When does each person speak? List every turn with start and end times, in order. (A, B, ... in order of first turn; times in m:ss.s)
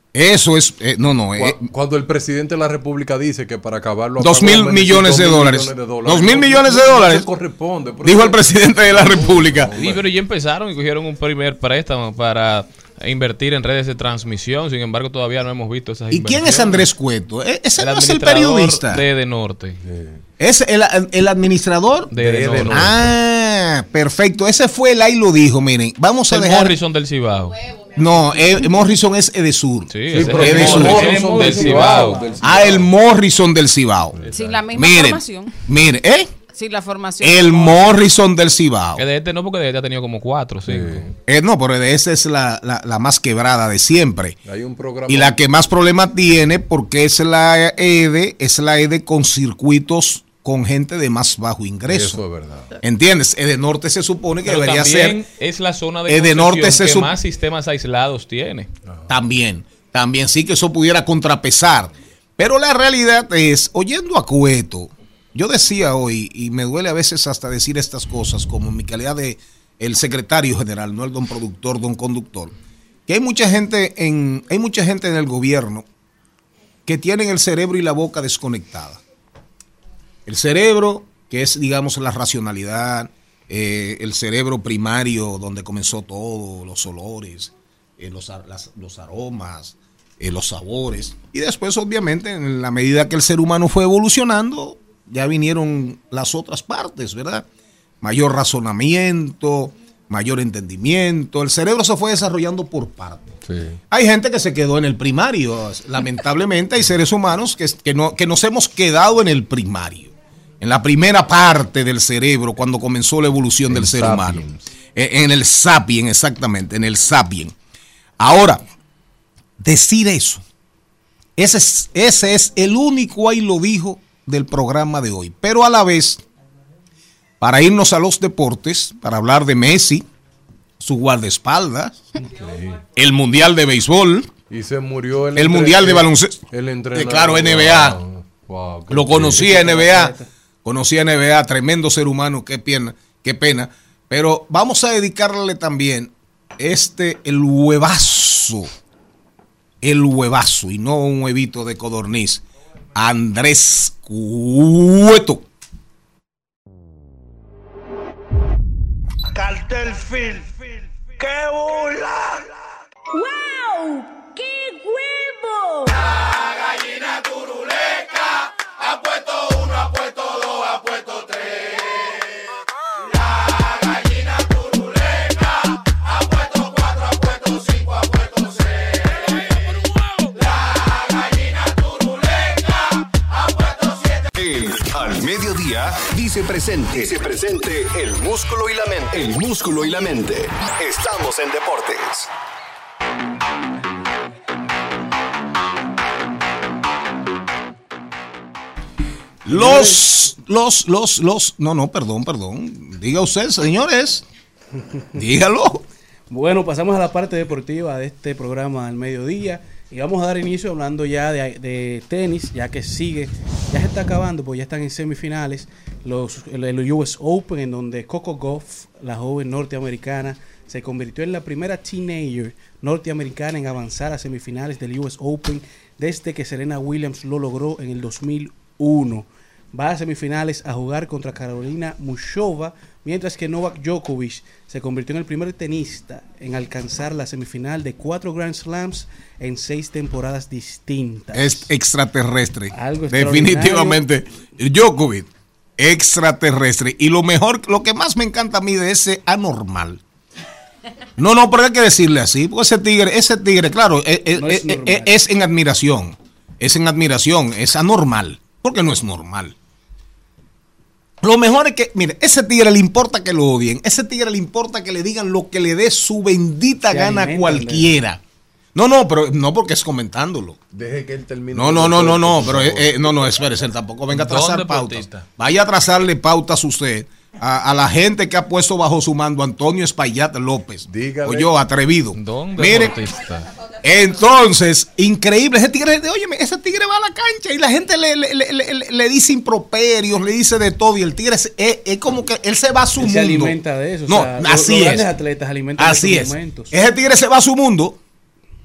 0:00.1-0:01.7 A
0:01.4-0:10.0 B
0:04.2-0:07.3 A
0:08.0-0:09.7 A
0:09.8-0:16.9 C
0:16.1-0:19.0 A
0:17.8-0:19.8 C
0:19.8-0:20.2 B
0:20.4-0:26.8 A
0:22.1-0:22.9 C
0:22.1-0:23.0 B
0:26.3-0:27.6 C
0:28.0-0:31.2 A
0:29.9-0:32.3 C
0:30.1-0:32.9 B
0:30.4-0:32.6 D
0:32.4-0:34.2 A
0:34.2-0:34.6 B
0:34.3-0:35.5 E
0:34.7-0:36.3 A
0:36.5-0:37.8 E
0:37.2-0:39.0 A
0:39.0-0:41.1 C
0:40.7-0:41.1 B
0:41.3-0:44.4 A
0:44.4-0:45.4 B
0:45.1-0:52.2 A
0:51.9-0:52.7 B
0:52.8-0:55.2 A
0:54.4-0:58.7 C
0:56.1-0:57.1 A
0:59.1-1:12.5 A
1:13.1-1:15.8 A
1:16.9-1:19.0 A
1:20.3-1:37.5 A
1:38.0-1:43.3 A
1:43.5-1:43.8 B
1:43.9-1:54.4 A
1:53.7-1:54.6 B
1:55.0-1:57.5 A
1:58.2-1:58.6 A
1:59.6-2:00.4 A
2:01.4-2:06.2 A
2:07.4-2:10.1 A
2:10.8-2:12.0 A
2:12.2-2:12.8 B
2:12.9-2:14.3 A
2:14.5-2:19.8 B
2:15.4-2:18.0 A
2:18.9-2:28.7 A
2:19.4-2:20.3 D
2:29.8-2:32.4 A
2:33.0-2:35.4 A
2:43.2-2:45.9 F
3:04.3-3:12.3 G
3:19.4-3:24.2 A
3:19.5-3:20.0 D
3:25.1-3:25.8 A
3:26.3-4:01.7 D
4:01.3-4:10.0 A
4:02.7-4:04.0 D
4:11.2-4:19.6 A
4:14.4-4:15.1 D
4:21.2-4:28.2 A
4:26.9-4:27.9 D
4:28.8-4:30.6 A
4:30.7-4:33.1 B
4:31.5-4:43.0 A
4:34.1-4:35.3 C
4:40.9-4:41.5 B
4:42.2-4:43.2 C
4:43.1-4:43.5 B
4:43.8-4:55.1 A
4:53.0-4:56.7 D
4:55.8-4:58.0 A